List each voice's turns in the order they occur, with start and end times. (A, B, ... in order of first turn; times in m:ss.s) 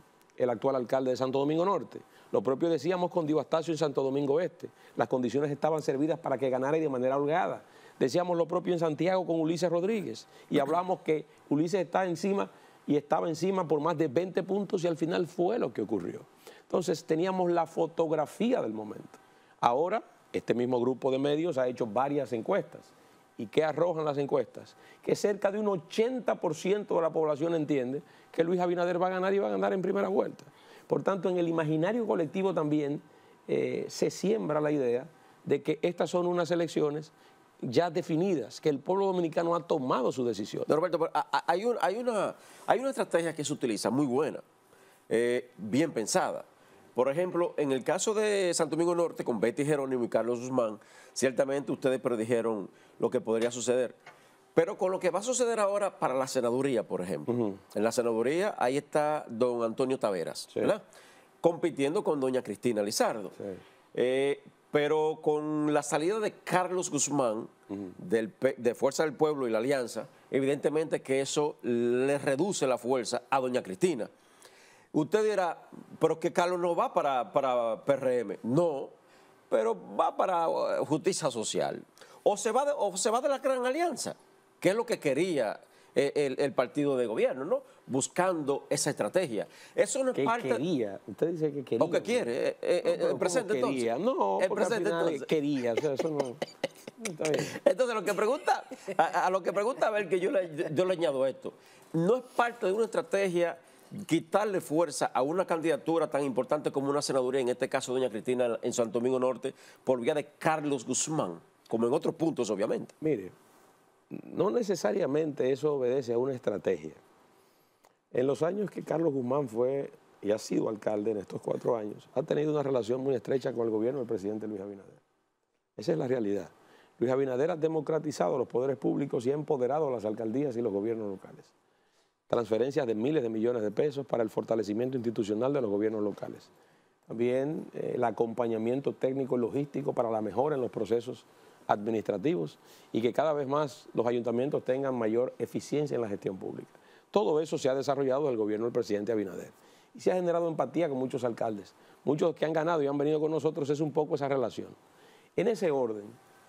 0:00.4-0:40.7 A
0:40.7-0:44.4 B
0:45.1-0:54.0 B
0:54.6-1:00.8 B
0:57.3-0:57.6 A
1:01.4-1:03.4 B
1:03.9-1:14.1 B
1:14.9-1:18.9 B
1:19.5-1:30.6 B
1:30.2-1:32.3 A
1:31.8-1:35.3 B
1:32.8-1:36.4 A
1:37.0-1:37.5 A
1:37.4-1:52.9 B
1:53.0-1:53.3 A
1:54.1-1:57.0 A
1:58.1-2:05.0 A
2:05.8-2:11.5 A
2:12.3-2:16.5 A
2:17.1-2:34.8 A
2:35.4-2:36.2 A